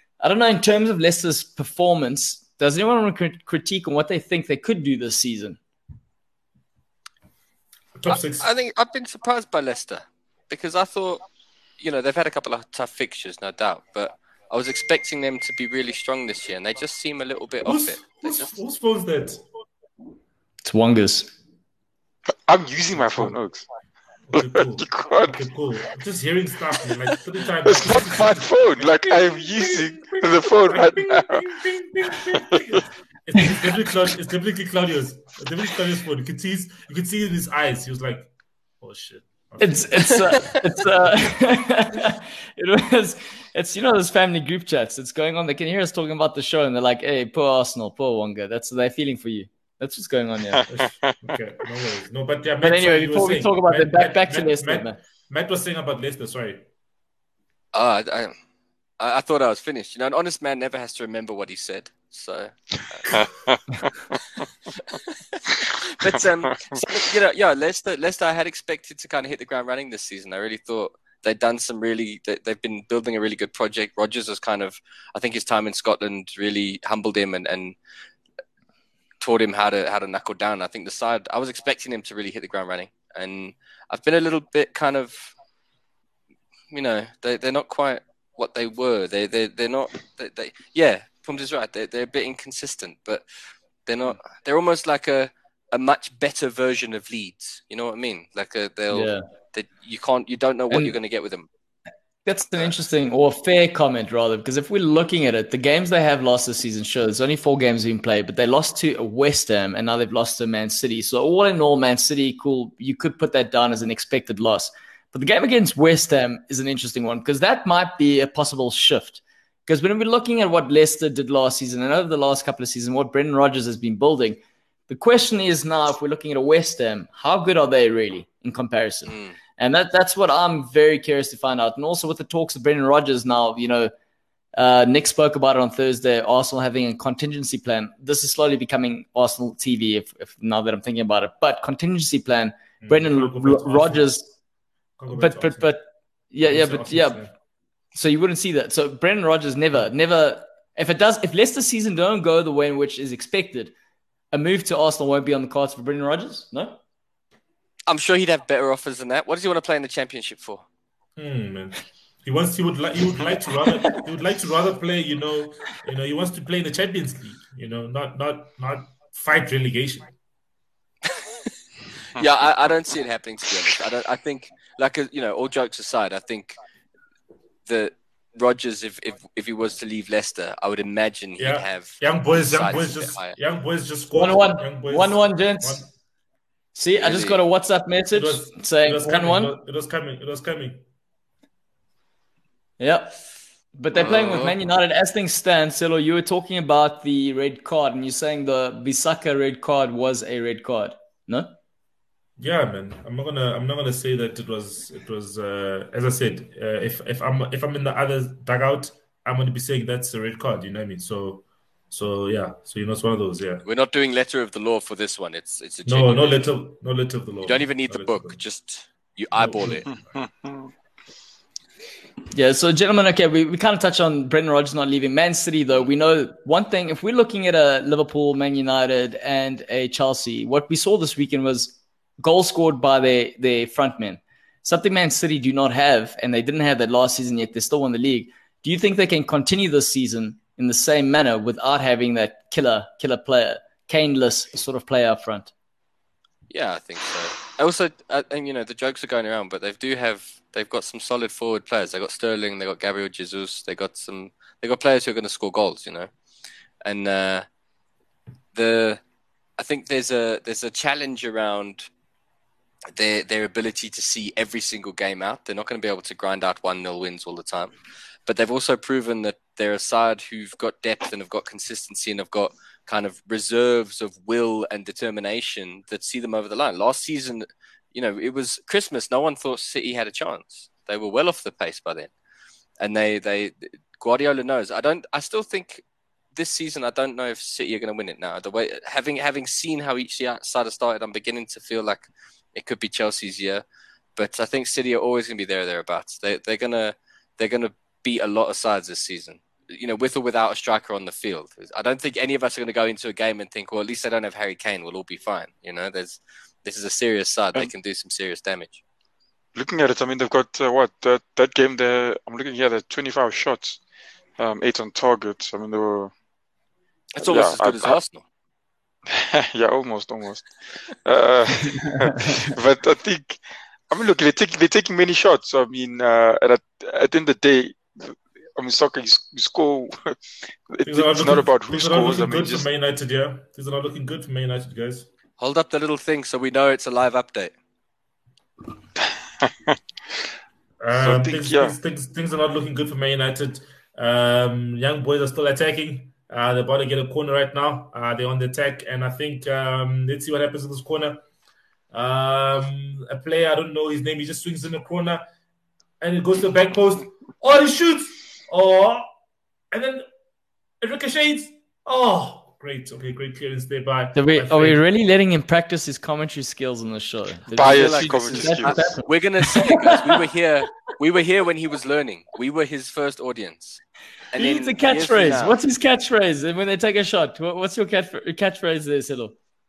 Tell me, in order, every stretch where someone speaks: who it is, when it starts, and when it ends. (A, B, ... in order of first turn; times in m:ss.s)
0:00.2-0:05.6 A
0:08.0-0:08.5 B
0:08.1-0:11.2 C
0:11.8-0:18.5 C
0:17.6-0:19.4 B
0:20.6-0:21.3 A
0:22.3-0:23.6 D
0:23.0-0:23.4 B
0:24.3-0:41.3 B
0:24.4-0:25.4 D
0:27.6-0:31.5 D
0:32.1-0:32.8 D
0:39.6-0:50.6 A
0:50.5-0:51.3 D
0:50.6-0:56.6 B
0:52.6-0:55.0 A
0:57.7-0:58.4 C
0:59.0-1:03.2 C
1:03.1-1:04.4 D
1:04.9-1:17.8 C
1:05.6-1:06.9 D
1:19.2-1:25.3 C
1:26.7-1:33.2 C
1:33.9-1:41.5 C
1:38.9-1:39.2 A
1:40.7-1:41.0 A
1:42.2-2:13.9 A
2:09.1-2:09.4 C
2:14.6-2:24.3 A
2:22.8-2:24.1 B
2:25.0-2:25.7 B
2:25.1-2:27.2 A
2:26.4-2:27.3 B
2:27.9-2:33.7 A
2:34.3-2:36.8 A
2:37.9-2:40.6 C
2:41.2-2:50.1 B
2:51.1-2:51.5 C
2:52.2-2:56.6 C
2:57.7-3:03.4 C
3:01.4-3:05.9 B
3:04.1-3:05.8 A
3:06.8-3:09.5 A
3:07.0-3:07.4 C
3:08.1-3:10.8 B
3:12.8-3:21.5 A
3:14.0-3:14.5 C
3:22.4-3:33.6 B
3:33.6-3:36.5 C
3:35.9-3:38.4 B
3:37.4-3:39.9 C
3:39.4-3:39.9 B
3:40.2-3:40.7 D
3:42.3-4:05.5 A
4:06.5-4:16.1 C
4:16.8-4:17.5 C
4:18.5-4:19.0 C
4:19.6-4:21.9 C
4:23.0-4:27.8 C
4:28.3-4:42.1 C
4:42.8-4:45.8 C
4:46.4-4:53.6 C
4:54.2-5:08.8 C
5:09.6-5:13.8 D
5:14.4-5:16.1 D
5:17.2-5:18.2 C
5:17.2-5:18.0 D
5:19.1-5:32.7 D
5:30.9-5:35.1 B
5:35.4-5:37.5 C
5:39.0-5:39.8 D
5:40.8-5:51.2 B
5:40.9-5:41.8 D
5:51.9-5:55.2 B
5:56.0-5:59.0 B
5:59.7-6:00.0 B
6:00.8-6:04.8 B
6:04.2-6:10.3 A
6:07.5-6:08.8 D
6:07.6-6:13.8 C
6:14.3-6:15.6 C
6:14.4-6:19.4 A